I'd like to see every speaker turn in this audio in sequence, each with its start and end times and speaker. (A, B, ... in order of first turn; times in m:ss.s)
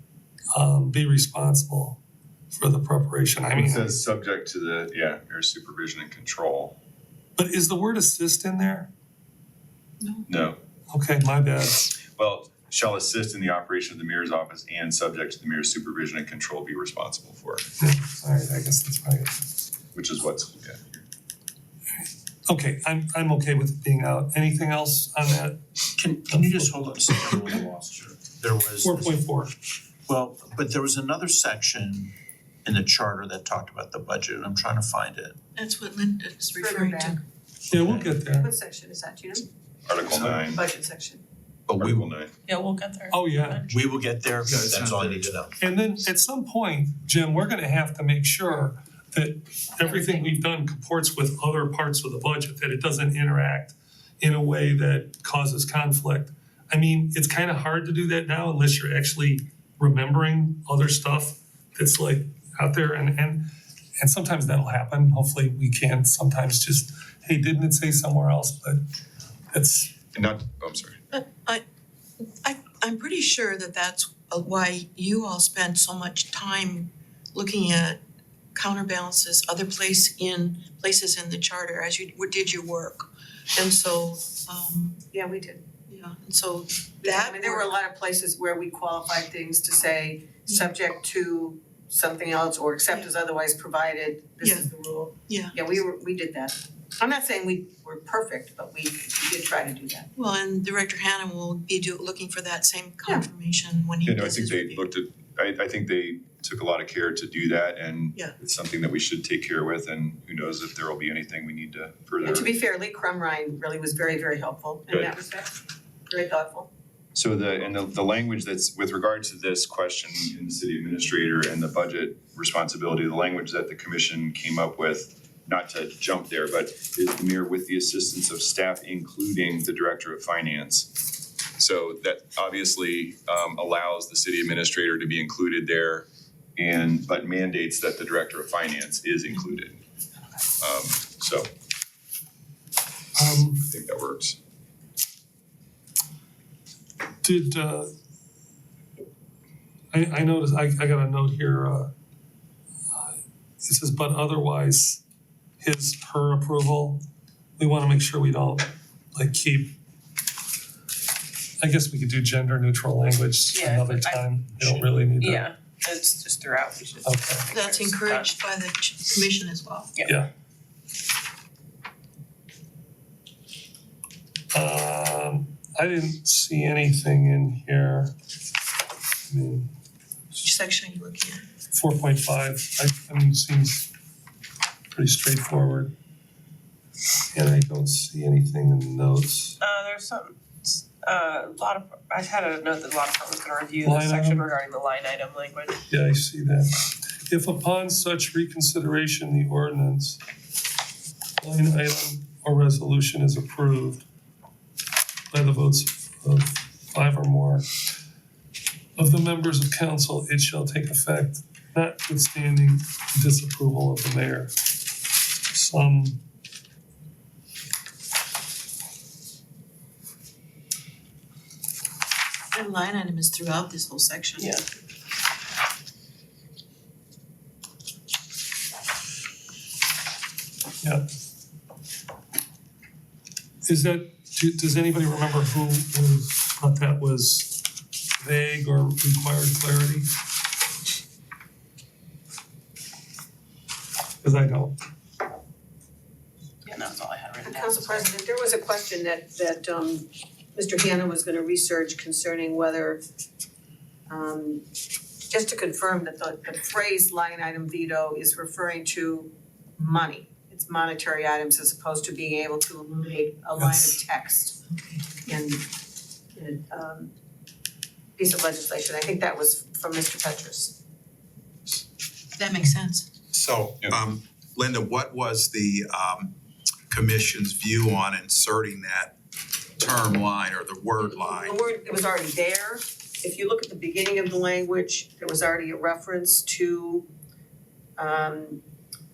0:00.5-0:02.0 A
0:02.5-0:04.0 A
0:03.5-0:06.8 B
0:07.4-0:08.9 A
0:10.3-0:10.6 B
0:10.9-0:11.9 A
0:12.2-0:17.6 B
0:17.8-0:19.4 A
0:19.9-0:21.0 B
0:22.5-0:25.6 A
0:25.9-0:29.2 C
0:26.4-0:26.7 A
0:28.8-0:29.5 A
0:30.1-0:32.1 C
0:32.6-0:35.4 C
0:35.5-0:37.2 D
0:36.6-0:37.2 E
0:37.7-0:38.5 A
0:37.7-0:38.1 C
0:38.2-0:39.5 E
0:39.9-0:40.6 B
0:40.5-0:41.2 E
0:41.7-0:42.1 C
0:41.7-0:42.3 B
0:42.4-0:43.8 F
0:43.1-0:43.6 A
0:43.7-0:45.6 C
0:44.4-0:45.4 G
0:45.6-1:03.4 A
1:04.0-1:08.8 A
1:09.5-1:09.9 A
1:10.1-1:11.0 B
1:11.1-1:11.6 D
1:12.4-1:18.0 D
1:18.5-1:25.0 D
1:25.1-1:25.6 E
1:25.9-1:27.7 D
1:27.0-1:40.1 E
1:34.4-1:34.7 D
1:35.3-1:35.6 D
1:40.1-1:44.8 D
1:44.0-1:52.5 B
1:52.2-1:55.5 E
1:54.9-1:55.2 B
1:56.1-1:56.7 E
1:57.1-2:11.0 B
2:11.6-2:19.8 B
2:20.6-2:21.5 B
2:23.2-2:23.6 A
2:23.6-2:24.4 B
2:27.2-2:27.9 A
2:29.9-2:31.9 A
2:33.6-2:35.0 A
2:35.6-2:37.0 A
2:37.6-2:39.7 A
2:41.6-2:45.5 A
2:43.5-2:48.3 F
2:47.0-2:47.4 A
2:47.5-2:49.9 D
2:50.0-2:50.3 A
2:54.5-2:58.1 A
2:59.3-2:59.7 A
3:00.3-3:01.4 D
3:01.7-3:03.9 A
3:04.9-3:05.9 A
3:07.3-3:09.6 A
3:09.6-3:15.8 F
3:13.8-3:14.5 A
3:15.9-3:16.7 A
3:17.3-3:20.2 A
3:21.4-3:24.0 A
3:25.3-3:27.6 A
3:29.0-3:34.5 A
3:35.5-3:36.2 A
3:42.5-3:44.6 D
3:44.4-3:44.6 F
3:53.6-3:57.6 A
3:58.2-4:00.1 A
4:04.2-4:04.7 A
4:06.6-4:08.1 F
4:07.4-4:10.0 E
4:10.5-4:13.0 E
4:14.1-4:14.6 E
4:15.3-4:24.6 E
4:23.6-4:24.0 A
4:25.2-4:25.6 E
4:26.4-4:27.1 E
4:28.2-4:30.7 E
4:32.4-4:33.1 D
4:33.3-4:36.3 G
4:36.9-4:39.1 G
4:39.8-4:41.6 G
4:41.0-4:47.1 E
4:48.0-4:48.6 E